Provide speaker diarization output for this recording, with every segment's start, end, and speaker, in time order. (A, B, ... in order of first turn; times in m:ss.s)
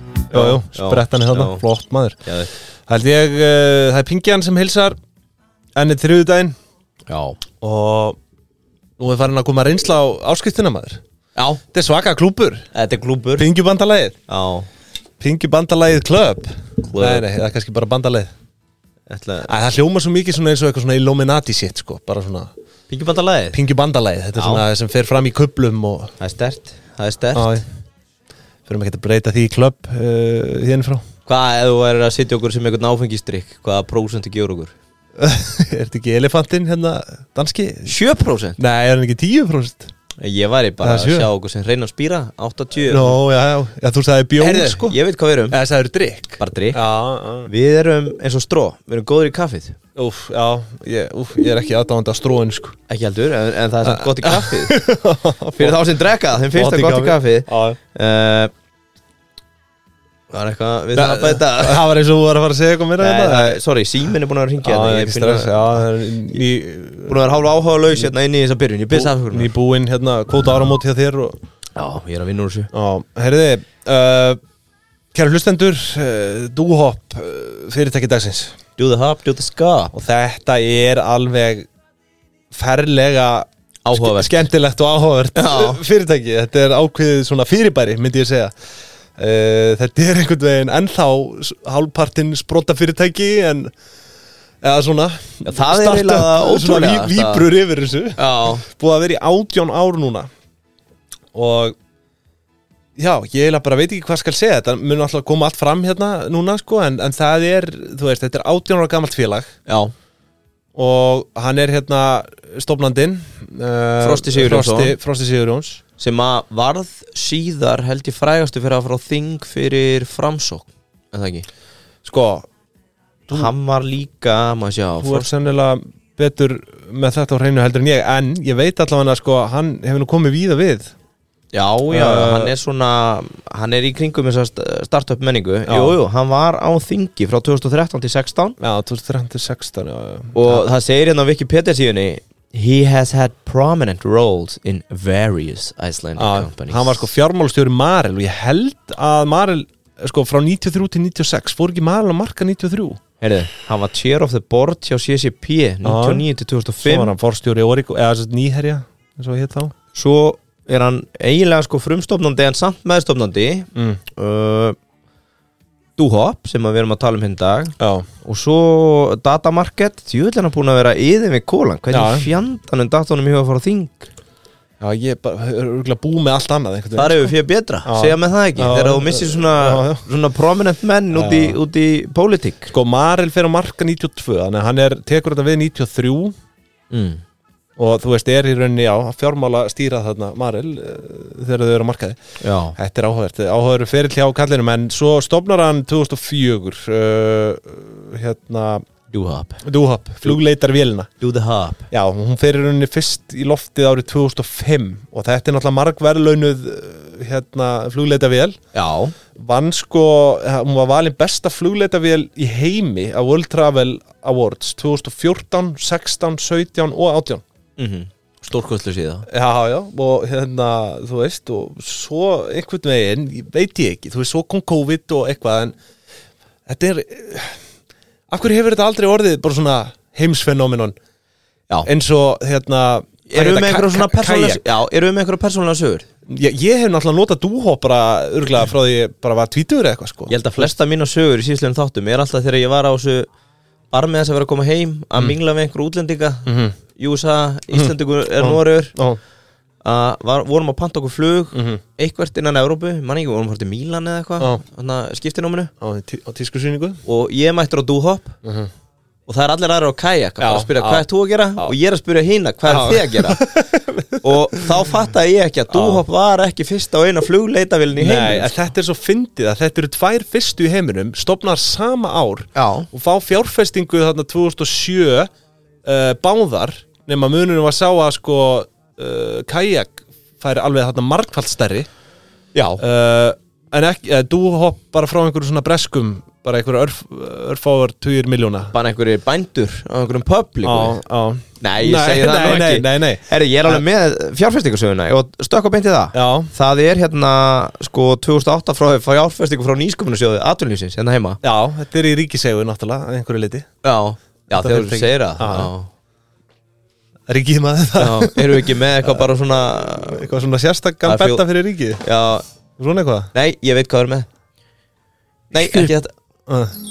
0:00.3-0:01.6 A
0:00.3-0:02.2 B
0:02.2-0:02.5 A
0:02.9-0:05.0 B
0:05.7-0:06.5 B
0:07.1-0:07.4 A
0:07.6-0:08.2 B
0:09.0-0:11.0 B
0:11.4-0:11.6 A
0:11.7-0:12.6 B
0:12.7-0:13.5 A
0:13.4-0:14.2 B
0:14.3-0:14.7 A
0:15.2-0:18.3 B
0:16.8-0:17.2 A
0:19.1-0:19.5 A
0:19.4-0:22.5 B
0:22.9-0:23.6 A
0:23.5-0:26.1 B
0:24.3-0:24.6 A
0:26.2-0:27.6 A
0:27.3-0:27.6 B
0:28.7-0:31.0 B
0:31.2-0:34.7 A
0:35.2-0:37.9 B
0:37.8-0:38.6 A
0:38.6-0:39.9 B
0:40.2-0:43.2 A
0:40.8-0:41.3 B
0:42.9-0:45.0 B
0:44.4-0:45.6 A
0:45.5-0:47.5 B
0:46.4-0:46.8 A
0:47.4-0:49.8 A
0:50.0-0:52.7 B
0:52.9-0:54.8 A
0:53.8-0:55.9 B
0:55.6-0:58.5 A
0:56.5-0:57.8 B
1:00.3-1:01.8 A
1:00.9-1:03.6 B
1:03.0-1:05.9 A
1:04.6-1:07.2 B
1:07.1-1:09.5 A
1:08.9-1:11.4 B
1:11.8-1:12.7 A
1:12.7-1:14.4 B
1:15.1-1:18.6 B
1:18.8-1:19.9 A
1:19.9-1:21.7 B
1:22.5-1:28.5 B
1:23.8-1:24.5 A
1:25.3-1:25.8 A
1:29.2-1:33.7 B
1:34.6-1:40.3 B
1:35.4-1:37.5 A
1:38.2-1:38.6 A
1:41.3-1:41.7 B
1:43.0-1:49.5 B
1:49.6-1:49.9 A
1:50.7-1:55.8 B
1:54.0-1:54.9 A
1:56.0-2:01.4 A
2:02.0-2:02.5 B
2:03.3-2:05.3 A
2:05.0-2:10.9 B
2:11.5-2:18.6 A
2:11.9-2:12.5 B
2:15.7-2:16.0 B
2:18.6-2:20.7 B
2:20.3-2:27.0 A
2:26.2-2:33.0 B
2:33.2-2:37.1 A
2:35.8-2:36.2 B
2:36.8-2:39.7 B
2:39.9-2:44.8 A
2:43.7-2:44.0 B
2:46.0-2:54.1 A
2:47.8-2:48.0 B
2:51.9-2:52.3 B
2:54.8-2:57.3 B
2:57.0-3:02.7 A
2:57.8-3:00.0 B
3:01.1-3:01.6 B
3:02.7-3:06.3 B
3:06.9-3:07.2 A
3:07.8-3:12.2 B
3:12.4-3:12.8 A
3:12.8-3:18.8 B
3:19.1-3:19.6 A
3:19.6-3:21.1 B
3:21.2-3:21.8 A
3:21.9-3:28.6 B
3:28.7-3:29.1 A
3:29.4-3:37.4 B
3:37.8-3:39.2 A
3:39.3-3:45.7 B
3:46.6-3:47.6 B
3:48.3-3:50.9 B
3:51.8-3:54.6 B
3:53.3-3:56.0 A
3:56.3-4:00.7 B
4:00.3-4:03.3 A
4:03.9-4:08.9 A
4:06.4-4:06.7 B
4:07.7-4:09.2 B
4:09.8-4:15.7 A
4:11.5-4:11.8 B
4:15.8-4:17.0 B
4:17.0-4:18.4 A
4:18.4-4:18.7 B
4:19.3-4:23.5 A
4:20.4-4:21.0 B
4:22.6-4:24.6 B
4:24.2-4:28.7 A
4:25.7-4:26.0 B
4:28.0-4:35.3 B
4:32.5-4:32.9 A
4:35.8-4:41.9 B
4:42.5-4:42.8 A
4:42.8-4:48.7 B
4:48.7-4:51.0 A
4:50.6-4:53.8 B
4:51.6-5:01.4 A
4:56.1-4:56.5 B
5:01.4-5:03.7 B
5:03.8-5:05.9 A
5:04.5-5:05.7 B
5:07.3-5:09.2 B
5:08.0-5:10.3 A
5:10.0-5:12.0 B
5:11.0-5:11.4 A
5:12.0-5:12.4 A
5:12.8-5:13.3 B
5:13.3-5:14.3 A
5:15.5-5:16.1 A
5:15.5-5:15.9 B
5:16.5-5:16.7 B